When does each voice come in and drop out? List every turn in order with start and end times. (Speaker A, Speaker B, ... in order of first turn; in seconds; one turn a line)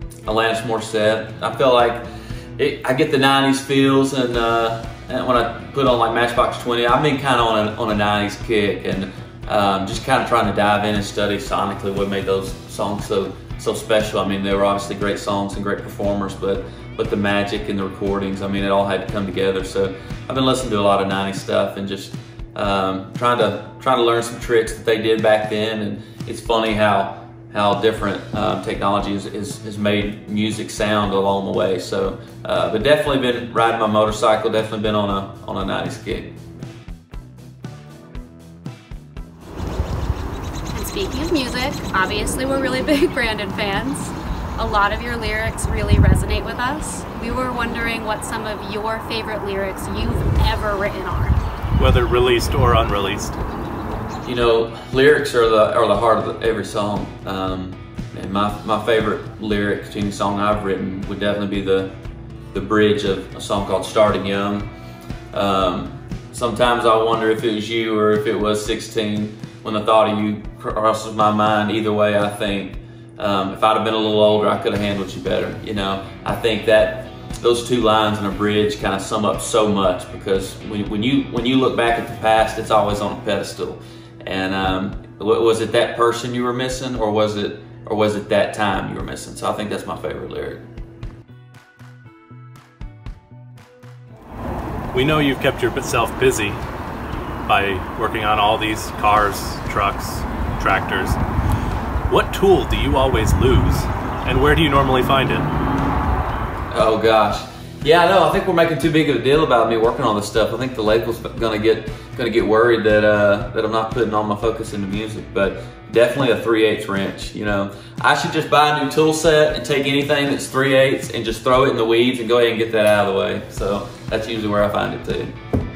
Speaker A: 0.2-36.3
Speaker B: 40.7-51.4
Speaker C: 51.8-53.4
Speaker A: 54.2-61.9
Speaker A: 62.5-64.7
Speaker A: 65.3-90.7
Speaker C: 94.9-96.6
Speaker C: 97.5-101.2
Speaker C: 102.1-105.5
Speaker A: 106.7-125.3